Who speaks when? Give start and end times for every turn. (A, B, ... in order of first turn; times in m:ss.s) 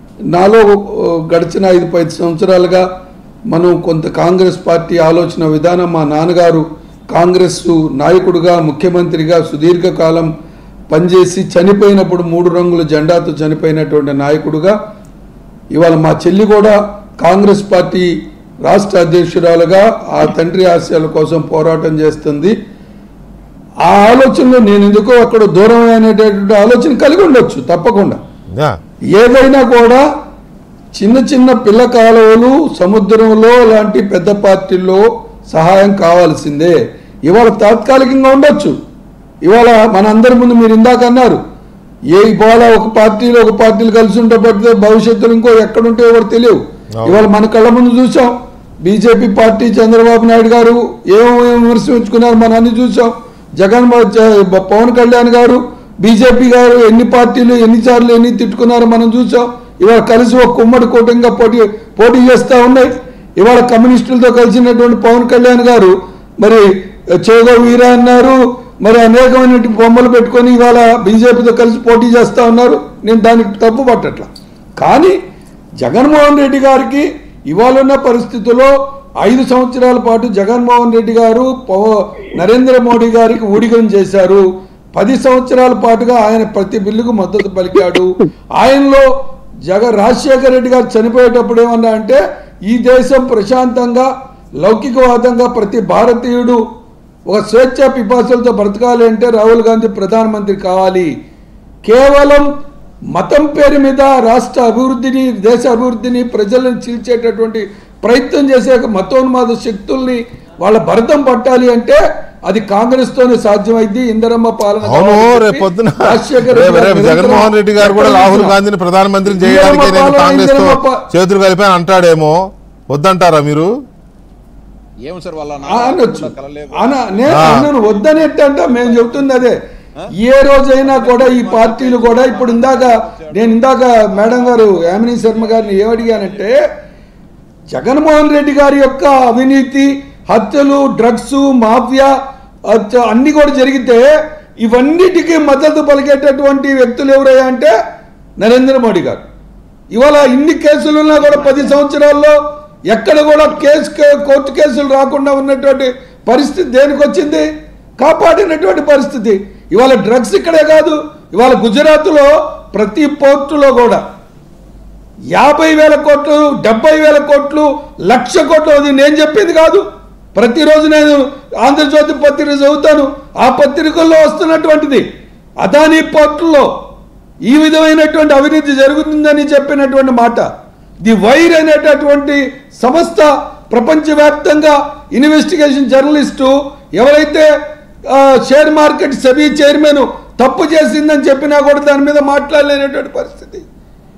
0:00.3-0:02.8 A
0:03.5-0:10.3 A
0:10.9-0:14.7 A
0:15.7-0:18.1 A
0:18.6-0:22.5 A
0:23.8-0:28.2 A
0:29.1-0:30.0 A
0:31.0-0:36.8 A
0:37.3-0:38.7 A
0:39.4-0:41.4 A
0:42.1-1:06.6 A
0:47.0-0:47.2 B
1:07.2-1:14.3 A
1:14.8-1:15.2 A
1:15.8-1:24.4 A
1:25.0-1:29.1 A
1:29.7-1:34.1 A
1:34.6-1:36.6 A
1:37.3-1:41.1 A
1:41.8-1:42.5 A
1:43.1-1:58.6 A
1:54.8-2:02.4 B
1:59.3-2:01.0 A
2:02.9-2:03.7 B
2:05.0-2:09.4 C
2:05.7-2:09.6 A
2:07.3-2:07.7 B
2:10.2-2:16.6 A
2:10.8-2:16.4 C
2:17.7-2:22.1 A
2:22.7-2:24.1 A
2:24.6-2:27.7 A
2:28.4-2:29.2 A
2:29.9-2:32.4 A
2:32.9-2:37.5 A
2:38.0-2:44.0 A
2:45.3-2:55.0 A
2:55.6-2:56.7 A
2:57.4-3:00.4 A
3:01.0-3:07.5 A
3:08.1-3:13.6 A